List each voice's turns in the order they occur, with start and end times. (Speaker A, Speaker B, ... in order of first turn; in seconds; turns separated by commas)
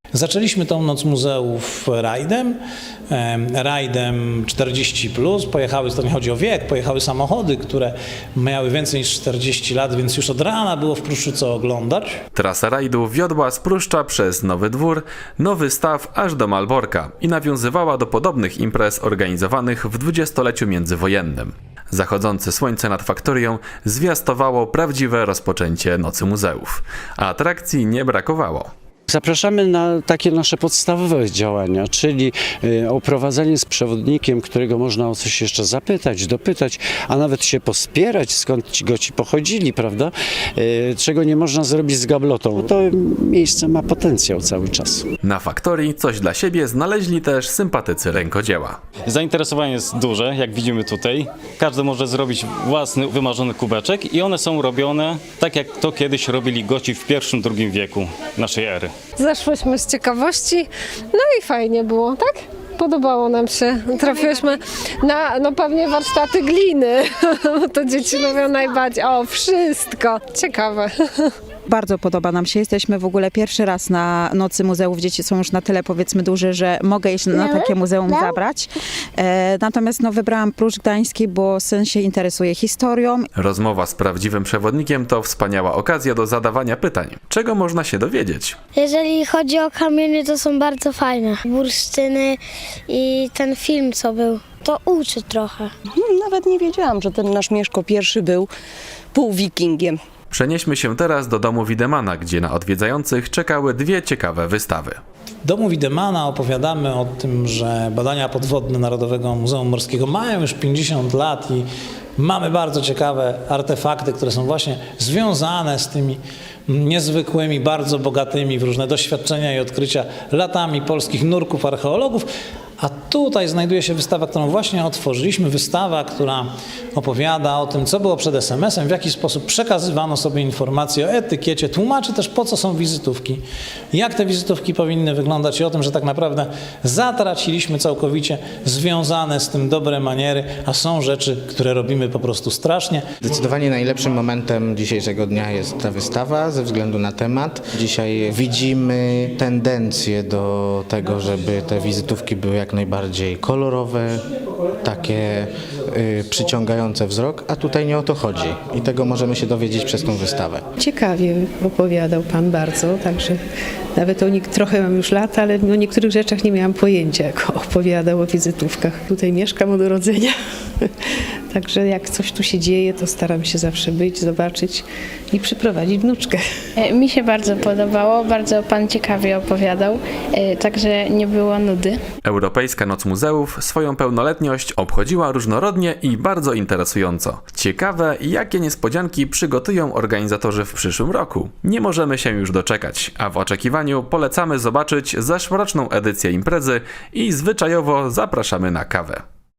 Speaker A: 0.1-2.6, Speaker A: 3.1-12.2, Speaker B: 12.3-28.7, Speaker C: 29.1-45.0, Speaker B: 45.2-48.8, Speaker D: 49.0-58.9, Speaker E: 59.2-71.3, Speaker F: 71.7-83.3, Speaker G: 77.3-78.3, Speaker B: 83.3-88.6, Speaker G: 88.7-95.7, Speaker H: 96.0-98.5, Speaker H: 99.1-100.0, Speaker B: 100.3-105.0, Speaker A: 105.4-111.6, Speaker A: 112.2-122.3, Speaker A: 122.8-143.1, Speaker I: 143.2-154.3, Speaker I: 154.8-160.7, Speaker J: 160.8-163.4, Speaker J: 163.9-170.9, Speaker J: 171.5-176.4, Speaker K: 176.8-182.0, Speaker B: 182.2-199.2